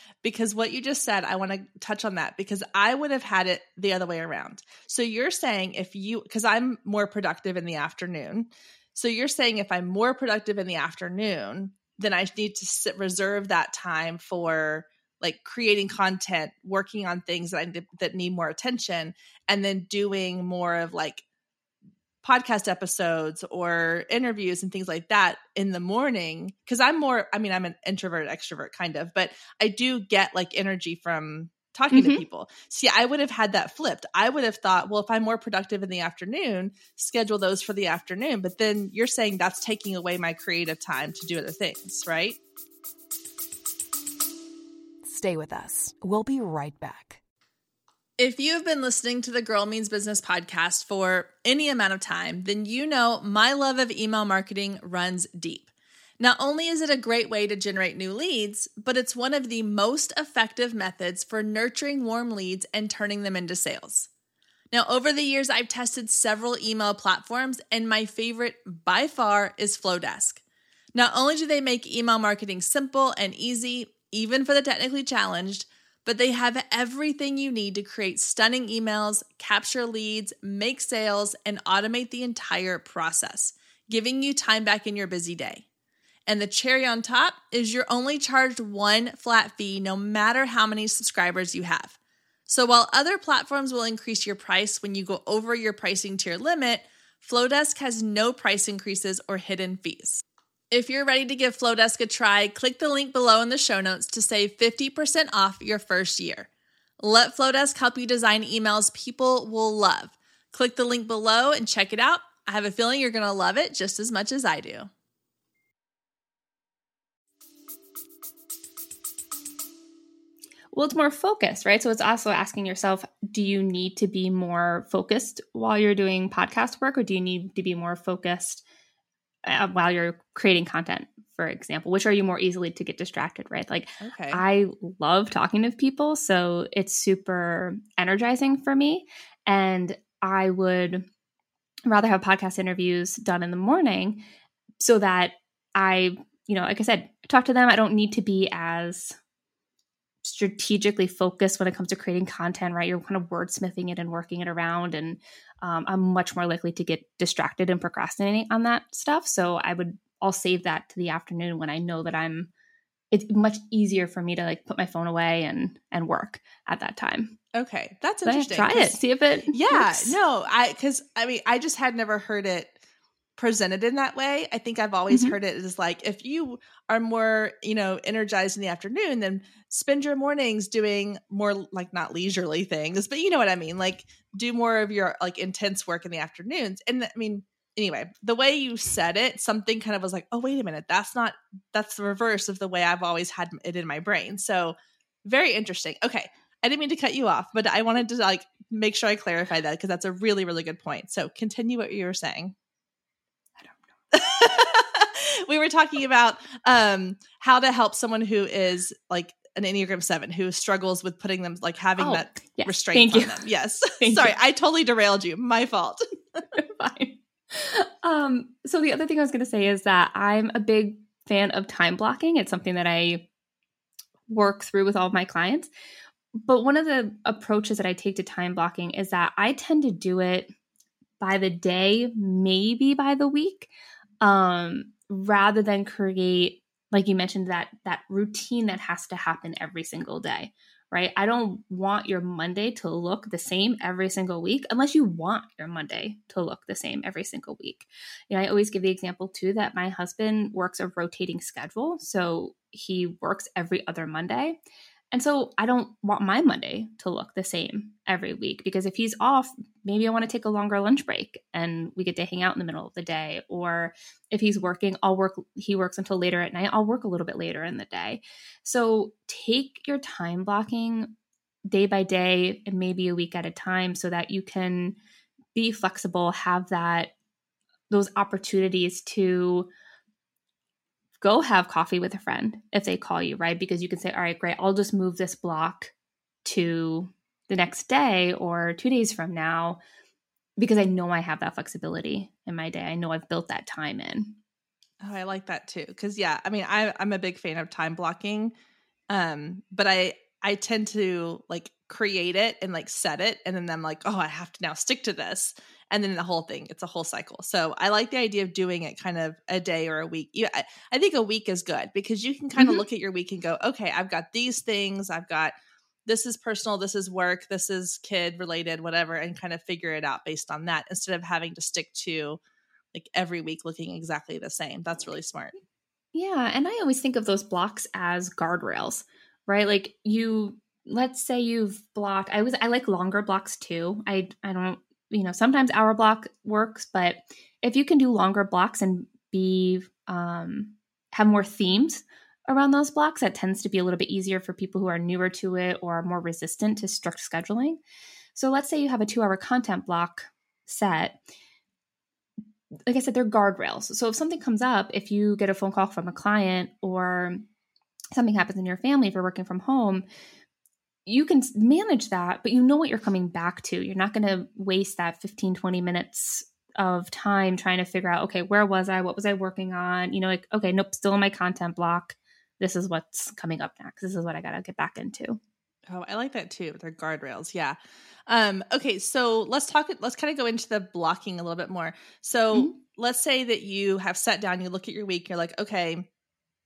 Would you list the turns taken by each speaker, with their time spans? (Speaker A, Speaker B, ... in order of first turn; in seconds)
Speaker A: 0.2-21.2, 22.2-42.4, 48.2-64.1, 64.7-70.4, 70.9-85.7, 86.3-106.5, 107.0-114.9, 134.0-134.4, 167.5-169.0, 169.5-172.8, 173.4-202.5, 204.1-216.0, 295.0-298.5, 299.1-315.5, 316.1-322.4, 322.9-325.5, 375.9-377.8, 378.3-386.1
Speaker B: 31.9-32.2, 120.7-128.6, 129.4-141.1, 141.9-144.2, 144.8-149.2, 150.2-162.5, 163.1-167.4, 168.2-170.2, 175.1-175.3, 212.0-214.3, 216.5-223.3, 224.3-225.7, 226.3-230.5, 231.2-233.7, 234.2-254.6, 255.1-271.1, 271.6-275.0, 275.5-277.1, 277.9-279.7, 281.2-285.9, 286.4-289.8, 290.6-294.4, 312.6-312.8, 326.1-347.8, 348.3-351.2, 352.9-357.4, 358.1-360.0, 361.1-375.4, 382.5-382.8
Speaker C: 45.0-47.2